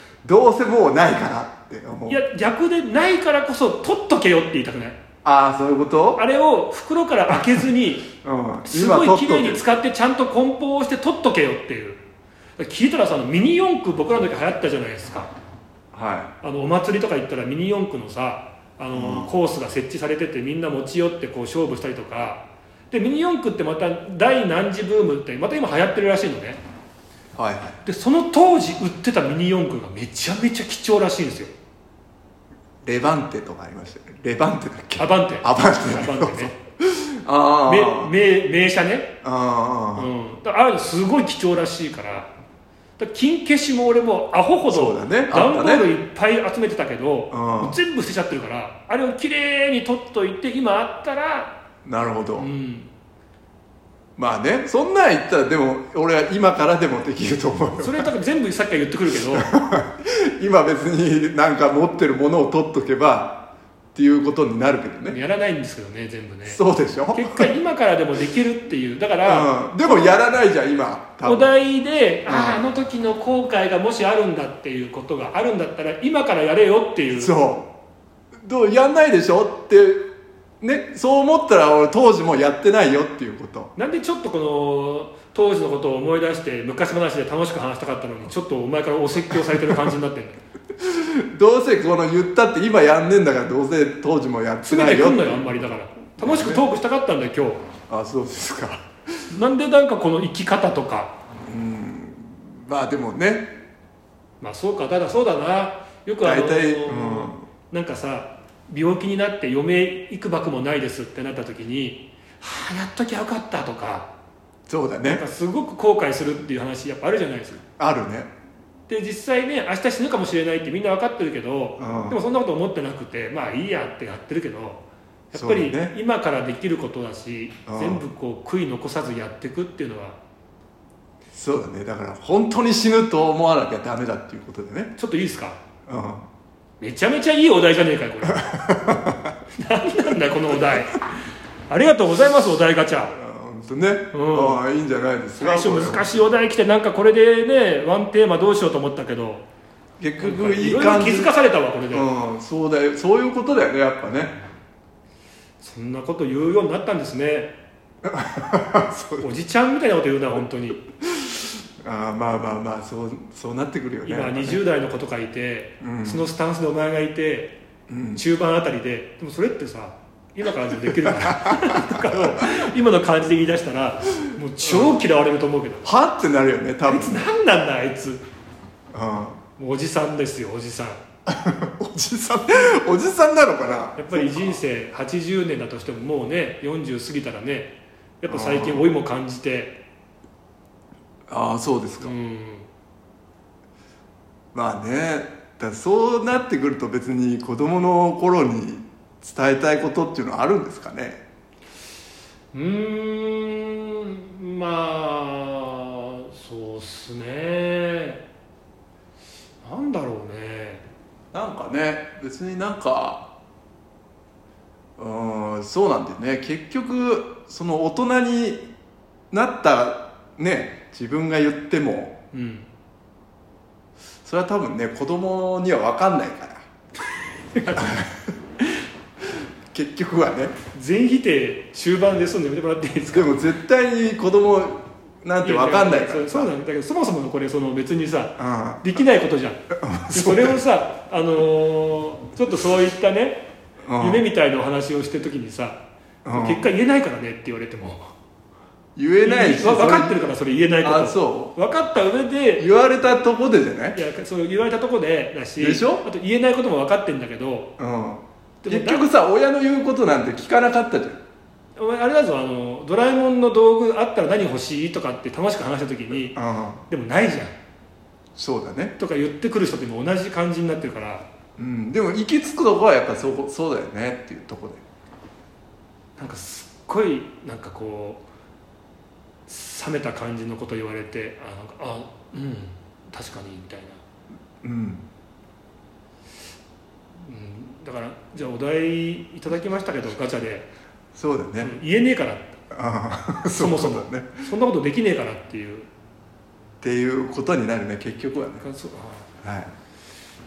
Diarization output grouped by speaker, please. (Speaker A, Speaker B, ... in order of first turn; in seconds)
Speaker A: 0.2-2.2, 5.2-6.2, 8.2-9.6, 15.9-16.3, 18.9-19.3, 27.4-27.8, 32.8-38.1, 39.2-40.1, 44.7-45.9, 47.3-47.8, 51.9-52.5, 54.2-58.1, 59.3-65.2, 66.5-67.5, 69.2-71.5, 72.3-72.7, 77.2-77.7, 78.5-80.0, 80.6-83.7, 90.8-96.7, 97.9-98.8, 101.5-103.5, 106.2-107.4, 114.7-115.2, 117.8-118.3, 121.8-122.2, 125.3-126.0, 127.7-128.0, 131.3-134.9, 135.9-136.3, 138.2-139.3, 143.1-146.2, 150.0-151.3, 151.9-154.4, 158.0-159.3, 161.1-164.6, 165.8-166.3, 167.9-168.2, 170.9-172.3, 174.6-175.0, 175.8-177.3, 178.9-179.4, 181.3-184.6, 188.3-188.8, 191.3-192.1, 194.5-201.2, 211.3-213.3, 215.0-218.7, 219.3-222.2, 224.2-226.6, 227.7-228.2, 229.7-230.6, 233.1-236.5, 238.4-238.9, 239.7-240.6, 243.8-244.2, 246.2-246.7, 249.0-251.5, 252.6-254.0, 255.6-256.1, 257.8-261.2, 266.3-266.9, 268.4-268.9, 271.6-274.8, 284.6-285.1, 291.1-291.8, 292.7-294.5, 296.8-298.6, 299.4-299.8
Speaker B: 2.1-5.0, 6.2-8.1, 8.7-12.0, 12.6-15.3, 16.4-26.6, 27.8-31.5, 35.0-36.6, 37.7-39.1, 40.0-42.3, 43.0-51.5, 52.4-52.9, 57.8-59.5, 65.1-66.6, 67.1-70.2, 71.2-77.3, 83.8-90.4, 94.7-97.6, 99.3-101.1, 104.4-114.1, 115.0-117.6, 118.9-130.2, 135.0-135.6, 136.8-138.5, 139.5-141.1, 141.7-143.2, 144.1-144.6, 145.4-149.4, 150.2-152.1, 155.6-157.5, 159.2-160.8, 164.0-167.6, 168.2-175.9, 176.9-178.2, 179.6-181.0, 184.0-189.8, 192.0-192.7, 202.5-208.2, 209.6-210.8, 222.3-222.7, 227.5-228.0, 230.7-233.4, 235.4-243.4, 244.0-248.1, 249.2-252.7, 253.9-257.7, 258.6-259.1, 261.8-267.5, 269.0-271.2, 276.2-278.2, 279.5-284.0, 287.2-290.7, 291.6-292.6, 293.5-295.9, 298.6-299.3